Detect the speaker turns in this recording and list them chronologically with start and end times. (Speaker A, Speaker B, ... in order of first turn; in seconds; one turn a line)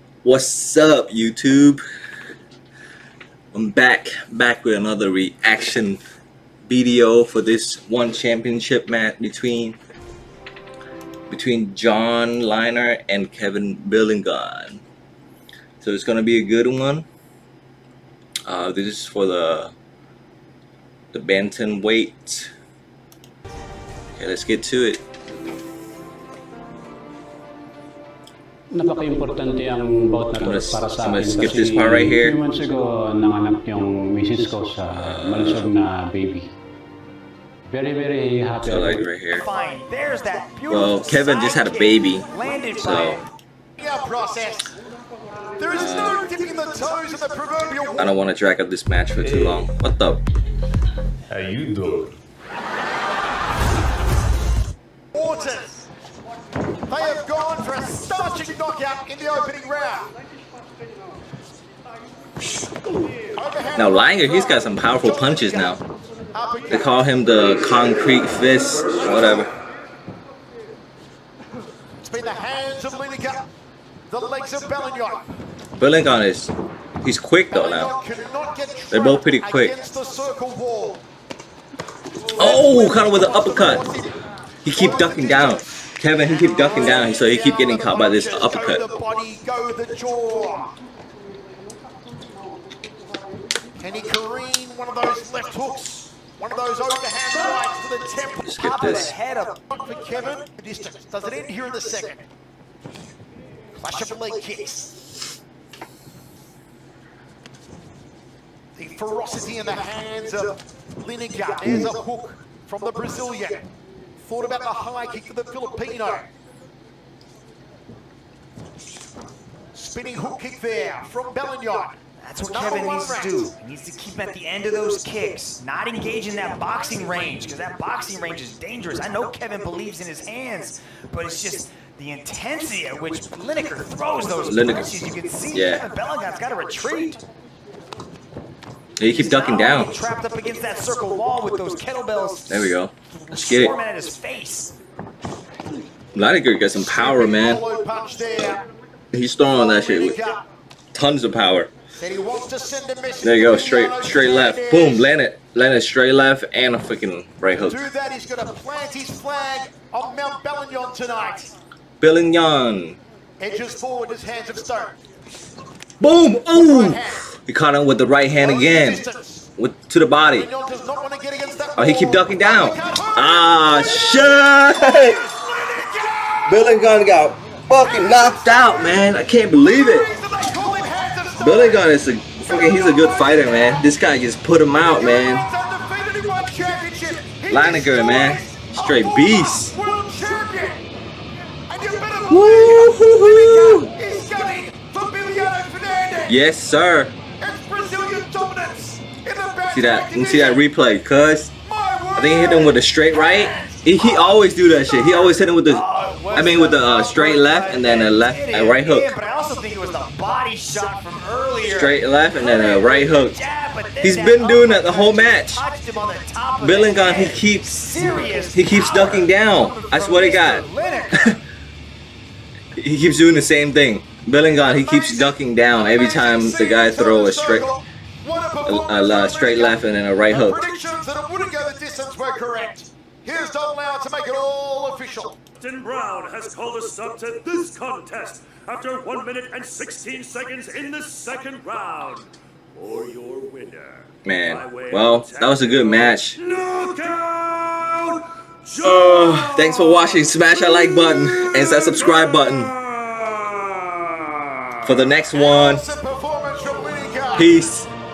Speaker A: 0.2-1.8
Speaker A: 3.5-6.0
Speaker A: 6.7-9.8
Speaker A: 11.3-14.8
Speaker A: 15.8-17.1
Speaker A: 18.5-19.7
Speaker A: 21.1-22.5
Speaker A: 24.2-25.0
Speaker B: 28.7-36.5
Speaker A: 30.4-32.4
Speaker A: 34.9-35.7
Speaker B: 37.7-39.1
Speaker A: 38.6-39.5
Speaker C: 39.3-43.2
Speaker A: 40.7-42.3
Speaker A: 42.8-43.2
Speaker D: 43.8-44.7
Speaker D: 45.6-48.1
Speaker A: 45.7-46.3
Speaker A: 48.0-50.2
Speaker E: 49.2-49.6
Speaker E: 51.3-52.1
Speaker D: 55.1-55.9
Speaker D: 56.9-60.1
Speaker D: 63.3-65.8
Speaker A: 63.7-65.8
Speaker D: 66.3-66.9
Speaker A: 66.7-69.5
Speaker D: 69.0-69.4
Speaker D: 72.0-73.5
Speaker D: 74.1-75.2
Speaker A: 75.8-77.9
Speaker D: 77.5-81.0
Speaker A: 78.9-79.7
Speaker A: 82.4-83.8
Speaker D: 82.4-84.2
Speaker A: 84.6-88.8
Speaker D: 84.7-85.6
Speaker D: 86.3-90.7
Speaker D: 93.8-98.5
Speaker A: 98.4-99.1
Speaker C: 98.5-99.6
Speaker D: 99.7-102.2
Speaker D: 103.8-104.9
Speaker D: 108.8-113.7
Speaker D: 114.2-116.3
Speaker D: 119.7-123.5
Speaker C: 122.2-137.2
Speaker A: 134.4-134.9
Speaker A: 135.5-135.8
Speaker A: 139.0-139.9
Speaker C: 139.0-144.7
Speaker A: 142.5-143.7
Speaker A: 146.1-147.6
Speaker D: 146.9-148.7
Speaker A: 149.1-150.2
Speaker D: 149.5-150.4
Speaker A: 150.9-151.7
Speaker D: 152.0-155.1
Speaker A: 153.2-157.8
Speaker D: 157.6-161.5
Speaker A: 162.0-163.0
Speaker D: 163.4-165.0
Speaker A: 166.0-169.0
Speaker D: 166.5-167.2
Speaker D: 168.4-169.5
Speaker A: 169.6-170.5
Speaker D: 170.3-176.4
Speaker A: 171.8-175.2
Speaker A: 176.4-180.1
Speaker D: 177.8-179.0
Speaker D: 179.6-181.9
Speaker A: 181.4-185.5
Speaker D: 182.4-183.8
Speaker D: 184.9-190.8
Speaker A: 187.5-189.7
Speaker D: 191.7-196.4
Speaker A: 192.3-193.9
Speaker A: 196.3-197.2
Speaker D: 197.3-200.6
Speaker A: 199.7-201.5
Speaker D: 201.6-204.2
Speaker A: 202.2-209.2
Speaker C: 205.7-221.4
Speaker A: 211.6-213.4
Speaker A: 214.0-215.6
Speaker A: 216.6-221.4
Speaker A: 222.8-227.7
Speaker D: 224.6-235.4
Speaker A: 228.6-230.7
Speaker E: 235.6-250.2
Speaker A: 244.2-246.4
Speaker A: 248.8-252.7
Speaker E: 251.2-254.7
Speaker A: 254.8-255.9
Speaker D: 255.3-257.6
Speaker A: 257.3-257.9